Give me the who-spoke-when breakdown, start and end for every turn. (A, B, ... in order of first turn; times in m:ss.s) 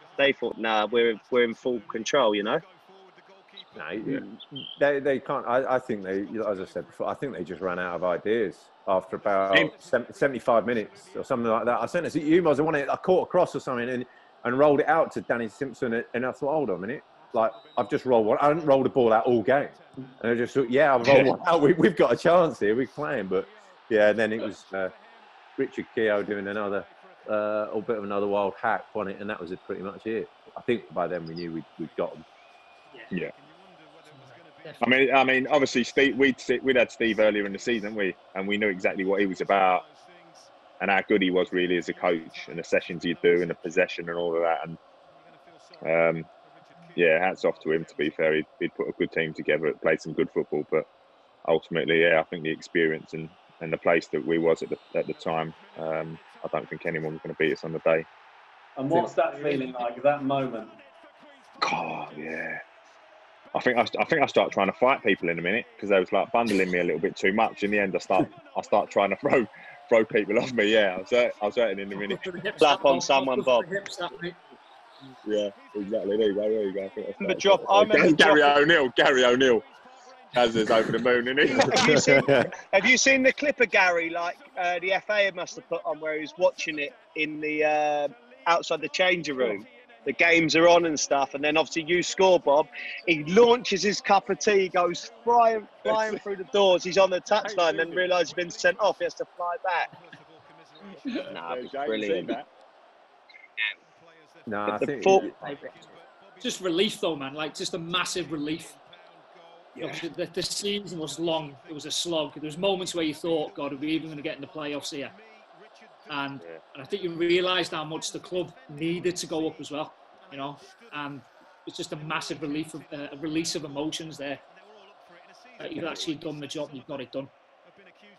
0:00.2-0:02.6 A
0:03.8-0:24.9 B
0:25.6-0:32.2 B
0:34.1-0:34.8 C
0:34.8-0:39.9 D
0:40.8-0:44.8 D
0:45.8-0:46.3 D
0:47.0-0:50.9 D
0:51.5-0:58.1 D
0:58.8-1:00.8 E
1:01.6-1:02.6 D
1:03.5-1:12.2 D
1:12.0-1:14.4 C
1:12.6-1:13.7 A
1:15.2-1:19.7 D
1:17.2-1:18.6 A
1:20.3-1:22.0 D
1:21.5-1:39.9 A
1:21.6-1:22.5 B
1:35.9-1:36.2 D
1:37.4-1:38.1 D
1:41.3-1:42.4 A
1:41.3-1:42.5 D
1:44.5-1:45.4 B
1:44.7-1:45.7 A
1:46.4-1:48.8 C
1:49.8-1:55.2 C
1:56.1-2:04.4 C
2:05.6-2:07.3 C